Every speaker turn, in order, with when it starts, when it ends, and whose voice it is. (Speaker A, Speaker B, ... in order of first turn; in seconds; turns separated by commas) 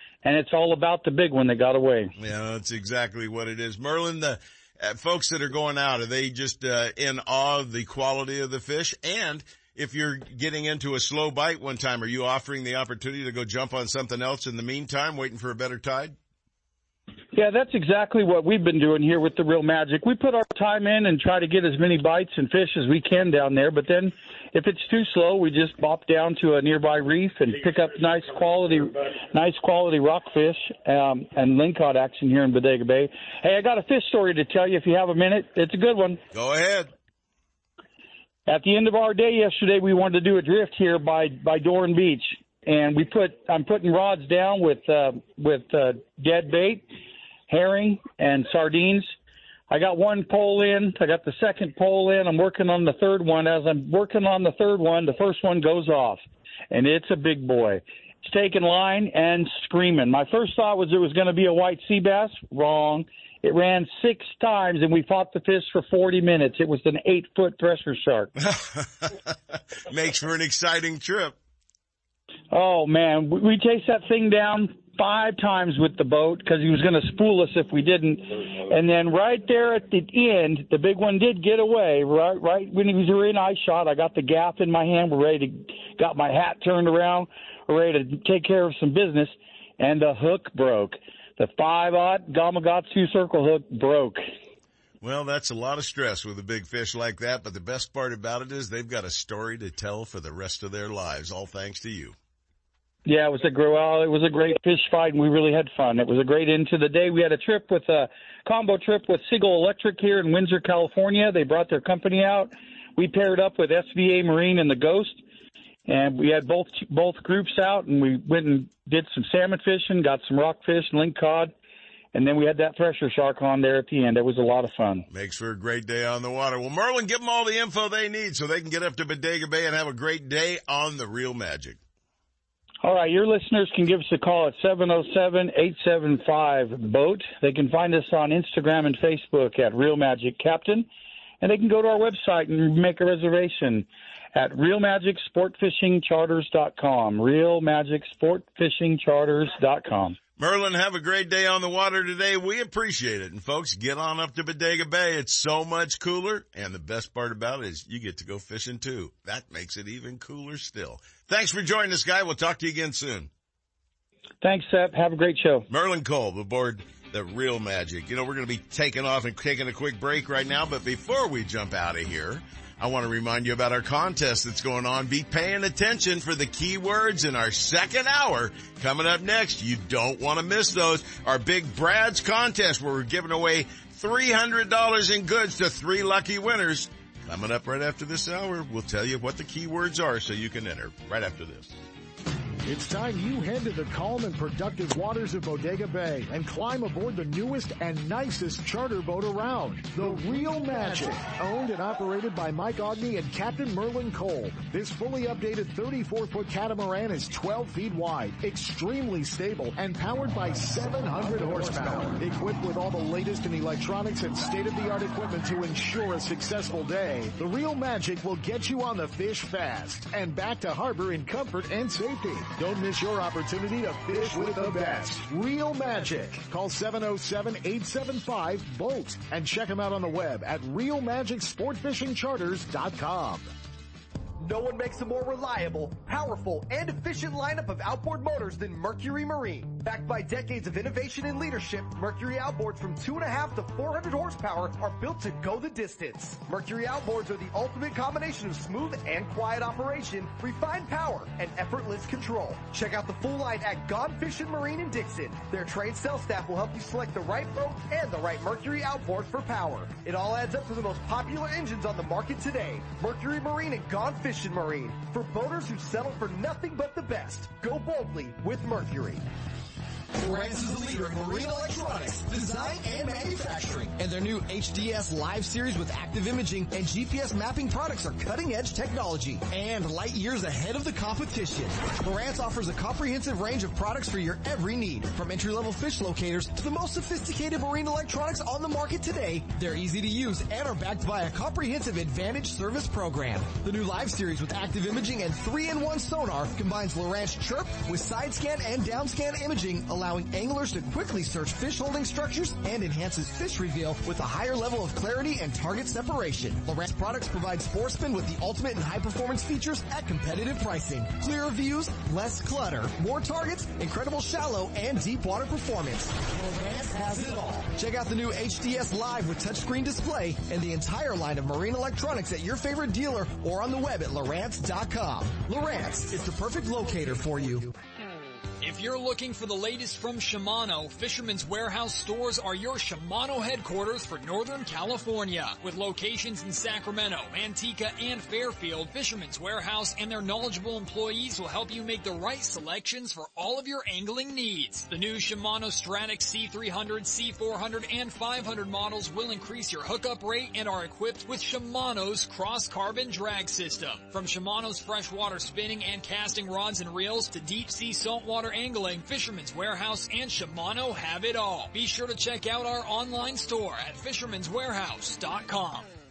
Speaker A: 0.2-2.1, Speaker B: 2.2-16.2, Speaker A: 17.3-36.2, Speaker B: 36.3-36.9, Speaker A: 38.5-46.9, Speaker A: 47.5-49.1, Speaker A: 49.7-68.3, Speaker B: 68.4-69.3, Speaker B: 69.9-71.4, Speaker A: 72.5-94.2, Speaker B: 95.0-102.2, Speaker A: 103.1-115.2, Speaker A: 115.9-121.5, Speaker A: 122.1-125.1, Speaker B: 125.1-131.8, Speaker A: 132.8-140.9, Speaker A: 141.4-150.2, Speaker B: 150.4-163.3, Speaker A: 164.4-165.7, Speaker B: 165.7-191.8, Speaker C: 192.7-233.5, Speaker D: 211.2-212.1, Speaker D: 234.4-269.2, Speaker D: 270.2-327.7, Speaker E: 328.6-365.9